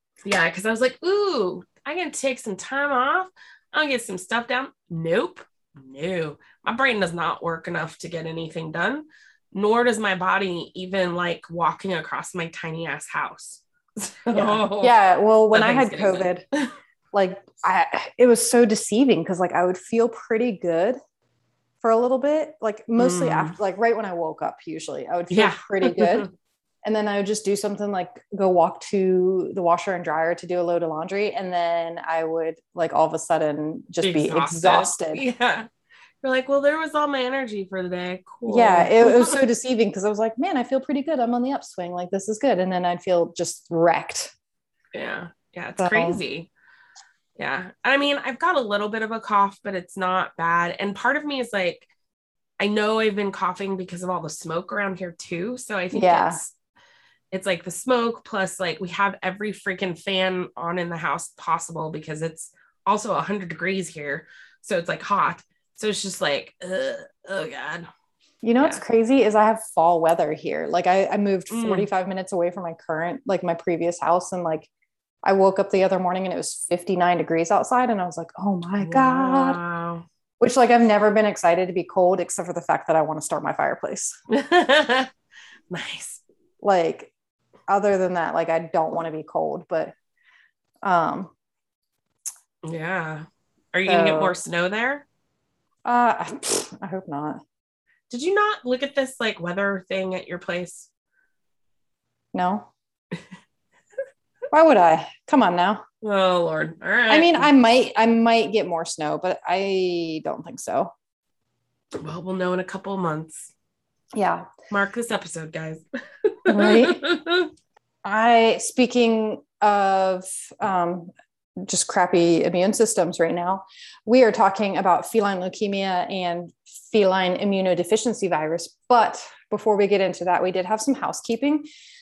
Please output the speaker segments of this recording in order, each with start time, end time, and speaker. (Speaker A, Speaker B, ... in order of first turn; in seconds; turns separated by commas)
Speaker A: 0.2-15.0, Speaker B: 14.3-16.4, Speaker A: 15.5-16.7, Speaker B: 17.1-21.0, Speaker B: 21.8-26.3, Speaker A: 23.0-23.6, Speaker A: 25.3-26.3, Speaker B: 26.9-35.2, Speaker A: 34.0-35.7, Speaker A: 36.2-39.4, Speaker B: 38.5-44.3, Speaker A: 44.9-46.5, Speaker B: 45.8-46.2, Speaker A: 47.4-51.9, Speaker A: 52.6-56.5, Speaker B: 55.9-56.4, Speaker A: 57.3-67.9, Speaker B: 68.4-74.7, Speaker A: 71.5-71.9, Speaker B: 75.2-79.6, Speaker A: 78.8-80.0, Speaker B: 80.4-84.2, Speaker A: 84.3-85.1, Speaker A: 85.7-86.2, Speaker B: 86.6-87.1, Speaker B: 87.7-89.9, Speaker B: 90.8-91.3, Speaker A: 92.6-95.1, Speaker B: 93.9-94.4, Speaker B: 95.8-97.4, Speaker A: 98.1-100.9, Speaker B: 102.3-102.7, Speaker B: 104.5-105.8, Speaker A: 106.0-107.5, Speaker B: 107.1-110.9, Speaker A: 111.9-113.5, Speaker B: 114.2-114.5, Speaker A: 114.7-117.5, Speaker B: 116.5-117.1, Speaker B: 118.0-131.7